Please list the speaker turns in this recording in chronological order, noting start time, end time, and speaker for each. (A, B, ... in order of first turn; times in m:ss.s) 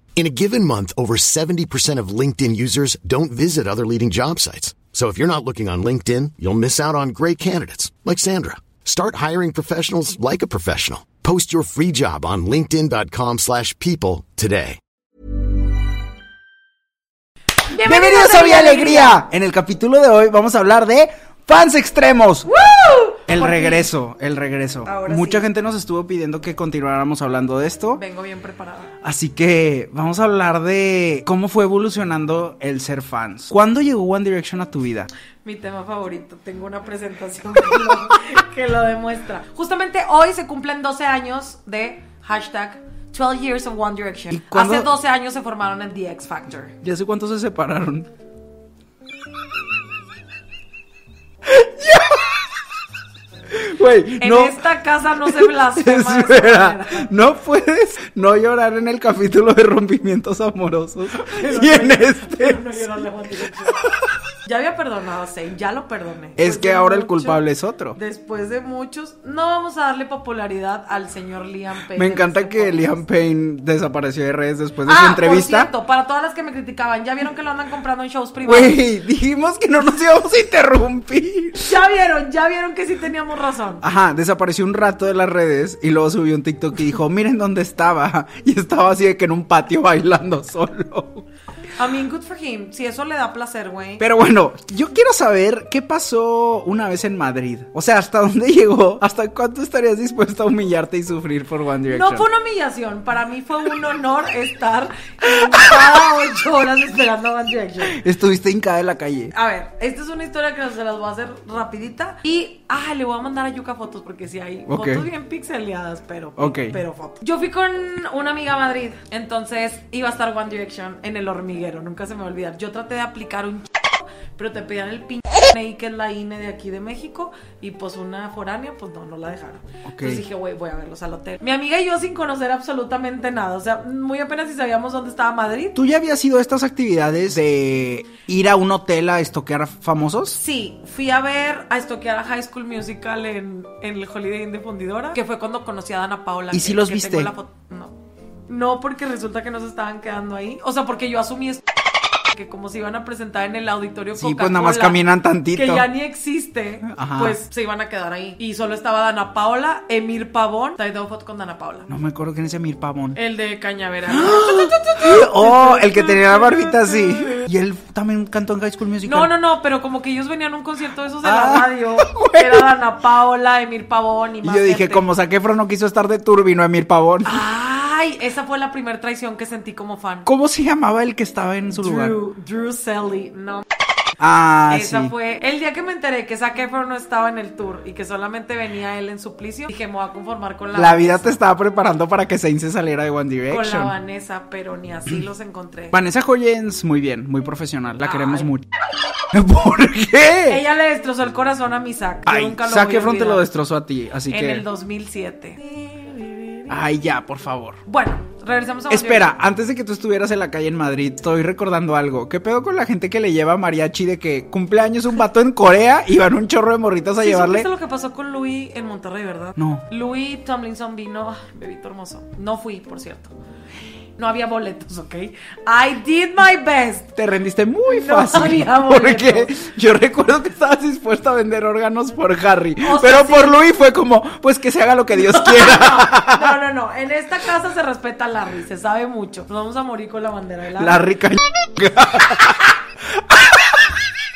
0:00.2-0:14.8 A
0:17.7-0:19.2 B
0:17.7-0:22.5 C
0:22.5-0:23.9 B
0:23.2-0:28.0 C
0:24.8-0:25.5 B
0:27.9-0:28.9 B
0:29.0-0:35.1 C
0:35.4-0:46.7 B
0:44.3-0:44.9 C
0:46.8-0:48.1 C
0:51.4-0:52.5 C
0:53.5-0:54.7 C
0:54.2-0:57.1 B
0:55.2-1:02.8 C
1:01.2-1:03.8 B
1:03.8-1:04.1 C
1:04.4-1:07.4 B
1:06.4-1:08.0 C
1:07.9-1:13.0 B
1:11.9-1:15.7 C
1:14.8-1:18.8 B
1:18.4-1:21.8 C
1:21.6-1:23.8 B
1:23.8-1:31.2 C
1:31.8-1:34.0 B
1:34.0-1:42.2 C
1:41.9-1:48.0 B
1:45.3-1:46.0 C
1:47.8-1:49.3 C
1:49.3-2:15.8 B
1:54.7-1:55.1 C
1:56.4-1:56.8 C
2:09.8-2:10.2 C
2:15.7-2:20.4 C
2:20.3-2:28.0 B
2:26.5-2:27.3 C
2:28.5-2:31.6 B
2:32.3-2:35.0 B
2:34.2-2:35.9 C
2:35.5-2:41.9 B
2:36.8-2:37.4 C
2:41.9-2:43.2 C
2:43.1-2:47.4 B
2:44.1-2:49.3 C
2:49.0-2:55.0 B
2:51.2-2:52.7 C
2:54.4-2:57.4 C
2:57.2-3:00.3 B
3:00.2-3:02.2 C
3:01.7-3:03.6 B
3:04.2-3:05.1 C
3:04.7-3:11.4 B
3:10.7-3:13.9 C
3:13.5-3:16.0 B
3:15.9-3:18.6 C
3:18.0-3:18.5 B
3:19.3-3:20.6 C
3:20.5-3:23.4 B
3:22.2-3:24.6 C
3:24.3-3:26.7 B
3:26.7-3:27.8 C
3:27.8-3:29.3 B
3:28.9-3:37.7 C
3:37.2-3:43.3 B
3:39.6-3:39.8 C
3:44.2-3:47.1 B
3:47.2-3:56.6 C
3:47.9-3:49.5 B
3:52.8-3:53.6 B
3:55.1-4:01.0 B
4:00.8-4:04.0 C